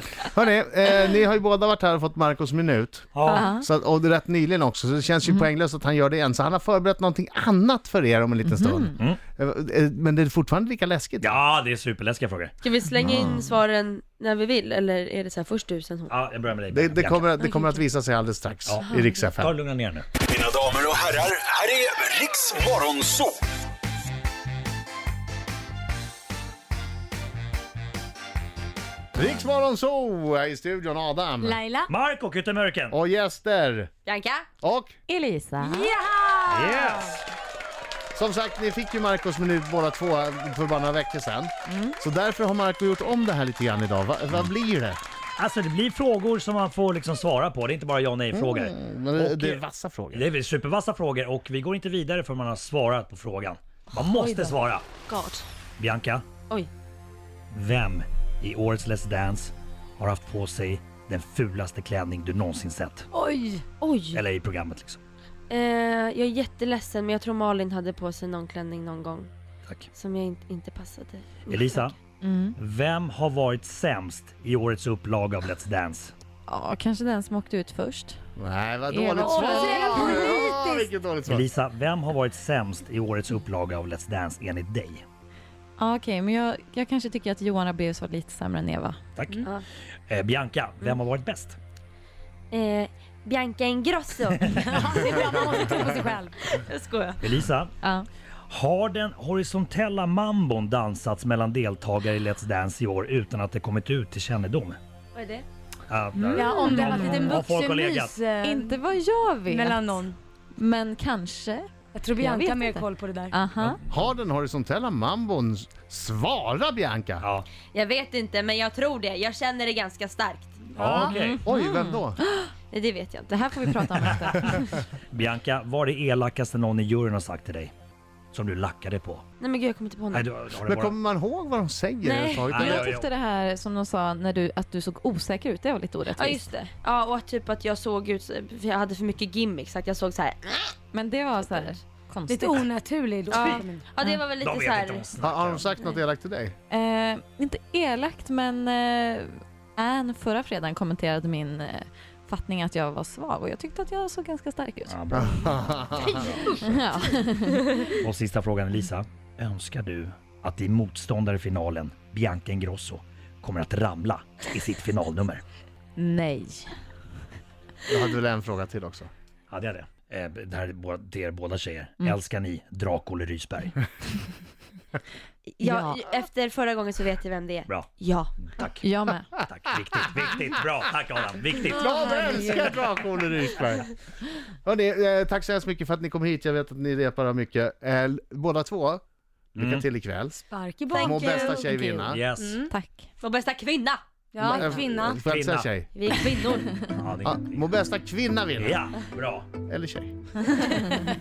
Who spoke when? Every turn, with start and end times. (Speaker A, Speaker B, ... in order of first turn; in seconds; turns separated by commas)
Speaker A: 0.3-11.4, Speaker B: 3.1-3.5, Speaker C: 3.3-3.7, Speaker C: 8.4-9.0, Speaker B: 11.2-12.5, Speaker D: 12.6-16.1, Speaker B: 16.1-17.3, Speaker A: 16.7-19.6, Speaker B: 19.4-20.1, Speaker E: 20.2-23.4, Speaker A: 29.1-31.6, Speaker F: 31.4-31.9, Speaker B: 31.9-33.0, Speaker A: 32.9-33.9, Speaker D: 34.0-34.5, Speaker A: 34.6-34.9, Speaker C: 35.1-35.9, Speaker F: 35.6-37.2, Speaker B: 36.5-37.2, Speaker A: 38.1-45.0, Speaker C: 41.7-42.0, Speaker B: 45.4-54.9, Speaker A: 48.3-50.3, Speaker F: 54.0-54.5, Speaker D: 55.1-55.4, Speaker B: 55.8-56.2, Speaker B: 57.5-63.1, Speaker F: 63.1-63.6, Speaker D: 63.8-64.2, Speaker B: 64.1-65.0, Speaker D: 65.5-69.3, Speaker D: 69.9-72.0, Speaker B: 71.5-71.9, Speaker C: 72.2-72.6, Speaker B: 72.6-76.1, Speaker C: 76.5-78.2, Speaker A: 78.4-81.4, Speaker C: 78.9-80.5, Speaker F: 79.2-80.9, Speaker B: 81.2-85.0, Speaker C: 85.8-89.0, Speaker B: 89.2-89.4, Speaker B: 90.1-91.6, Speaker D: 92.5-94.5, Speaker B: 94.4-94.7, Speaker F: 94.5-96.3, Speaker D: 96.4-97.3, Speaker B: 97.2-97.7, Speaker C: 97.8-98.1, Speaker B: 98.5-104.8, Speaker D: 105.1-105.4, Speaker B: 105.9-108.2, Speaker C: 106.2-107.3, Speaker F: 106.3-108.9, Speaker D: 106.5-106.9, Speaker C: 108.4-113.8, Speaker F: 109.4-110.2, Speaker F: 111.9-113.4, Speaker B: 113.5-113.8, Speaker A: 113.9-117.3, Speaker B: 117.2-117.5, Speaker D: 117.7-120.7, Speaker B: 120.7-121.4, Speaker F: 120.8-121.2, Speaker C: 121.1-122.5, Speaker A: 121.4-122.2, Speaker D: 122.7-123.4, Speaker C: 123.3-124.8, Speaker B: 125.1-127.7, Speaker B: 128.3-129.2, Speaker D: 129.4-130.3, Speaker B: 130.1-130.9, Speaker A: 130.6-133.0, Speaker D: 132.0-132.9, Speaker B: 132.5-133.1, Speaker C: 132.6-136.4, Speaker D: 136.1-140.8, Speaker C: 140.9-142.7, Speaker D: 141.4-141.7, Speaker F: 142.3-143.8, Speaker D: 143.3-145.1, Speaker B: 144.4-145.7, Speaker A: 145.2-146.5, Speaker C: 146.7-155.0, Speaker B: 154.9-156.6, Speaker A: 155.1-156.5, Speaker C: 156.5-157.8, Speaker B: 157.9-165.4, Speaker C: 166.0-166.7, Speaker A: 167.9-169.1, Speaker B: 169.5-173.8, Speaker D: 175.5-178.3, Speaker C: 175.6-176.0, Speaker B: 178.4-181.8, Speaker C: 178.8-179.3, Speaker F: 181.7-182.8, Speaker A: 181.7-183.9, Speaker A: 184.6-189.0, Speaker A: 189.5-190.4, Speaker B: 189.6-189.8, Speaker F: 190.5-191.7, Speaker D: 190.9-191.8, Speaker A: 191.0-192.2, Speaker C: 191.6-193.1, Speaker B: 192.1-192.6, Speaker F: 192.2-192.7, Speaker D: 193.2-194.0, Speaker F: 194.3-195.2, Speaker A: 194.4-195.9, Speaker B: 195.2-195.8, Speaker D: 195.9-196.8, Speaker B: 196.9-197.7, Speaker A: 197.2-198.9, Speaker B: 198.6-199.5, Speaker A: 199.7-200.1